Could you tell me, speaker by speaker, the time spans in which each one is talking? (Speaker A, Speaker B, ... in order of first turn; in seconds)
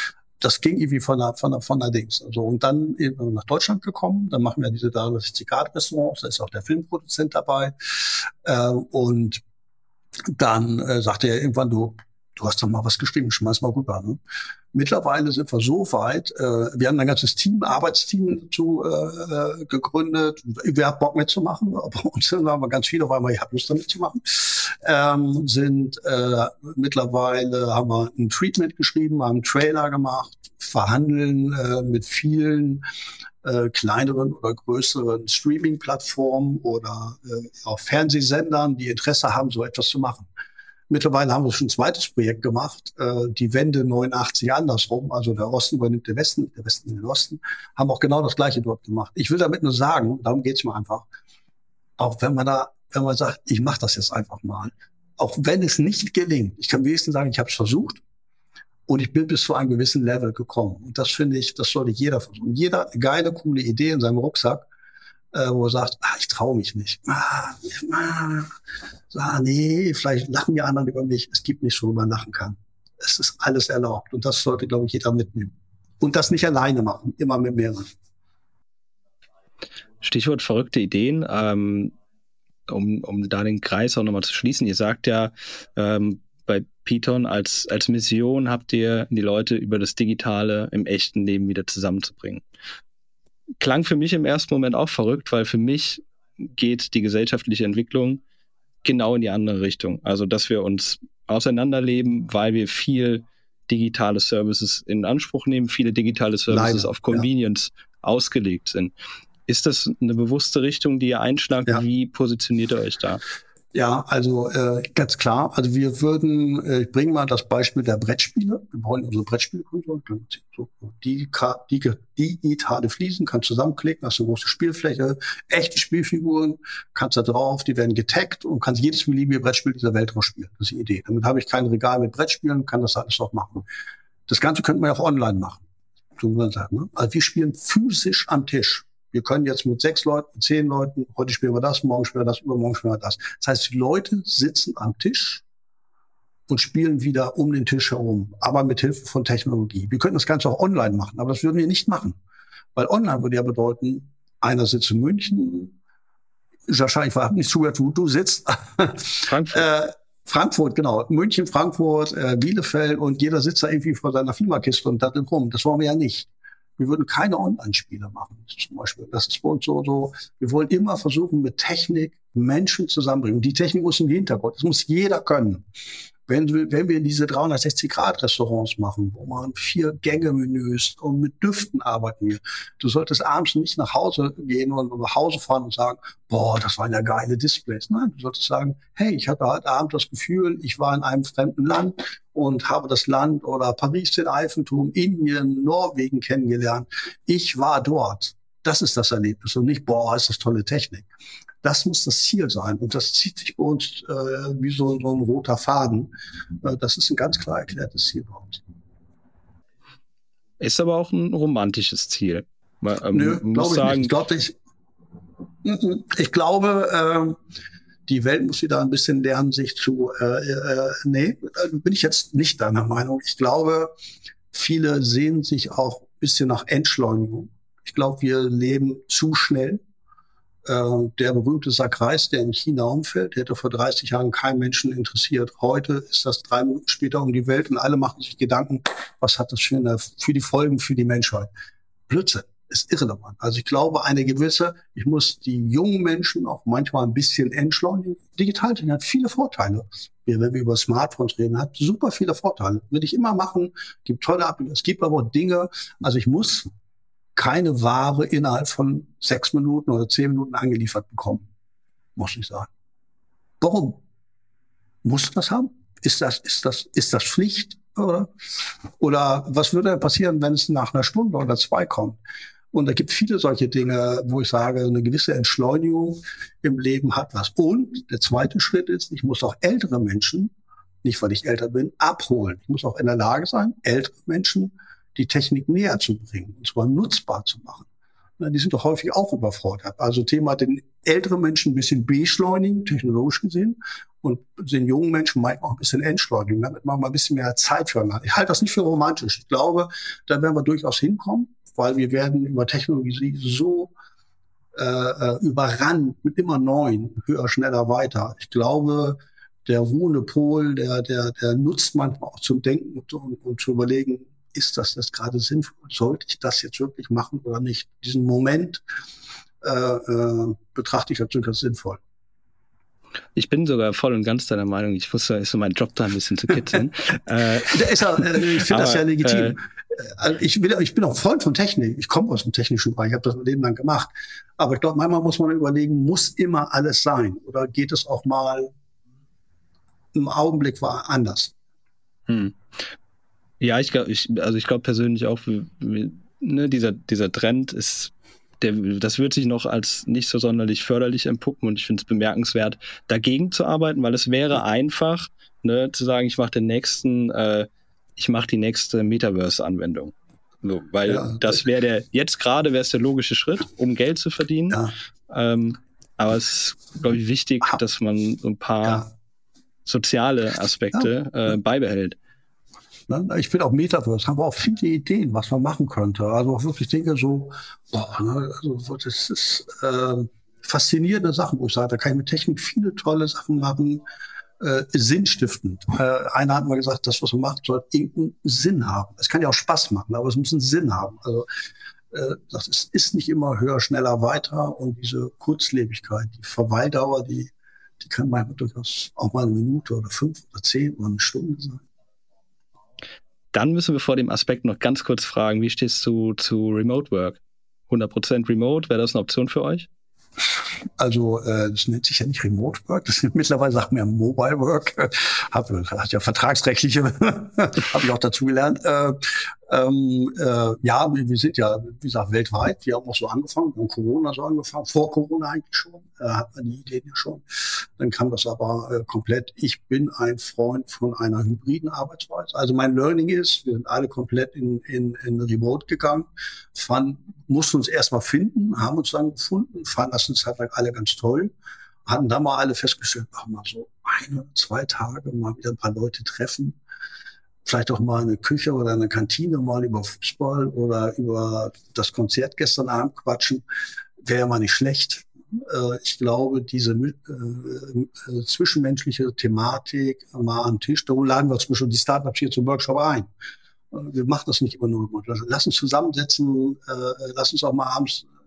Speaker A: 0.4-9.4, 10.3-14.2, 14.7-32.8, 33.4-40.3, 40.9-51.1, 52.0-58.0, 58.9-64.7, 65.3-68.5, 69.1-77.9, 106.5-107.3, 113.7-133.7, 134.3-135.6, 136.2-145.4, 146.5-152.2, 152.8-155.7, 156.7-175.6, 176.3-201.1, 201.6-208.6, 213.1-214.6, 215.6-217.4, 218.1-223.9, 224.5-229.8, 230.7-241.5, 242.1-256.7, 257.4-261.5, 262.2-262.7, 263.6-264.0, 265.0-268.3, 269.0-272.2, 272.7-280.5, 281.0-287.9, 288.4-303.9, 304.8-318.8, 319.6-322.0, 327.6-338.7, 340.1-341.6, 361.1-361.6, 373.1-384.1, 384.6-391.5, 392.1-401.8, 411.0-441.5, 442.1-446.8, 447.6-453.6, 454.2-463.3, 463.9-468.3
Speaker B: 80.0-81.9, 82.7-92.4, 93.6-98.2, 98.8-108.9, 109.5-113.2, 159.3-159.7, 210.6-214.2, 323.4-329.6, 342.3-342.6, 343.6-369.1, 369.9-372.2, 403.5-409.9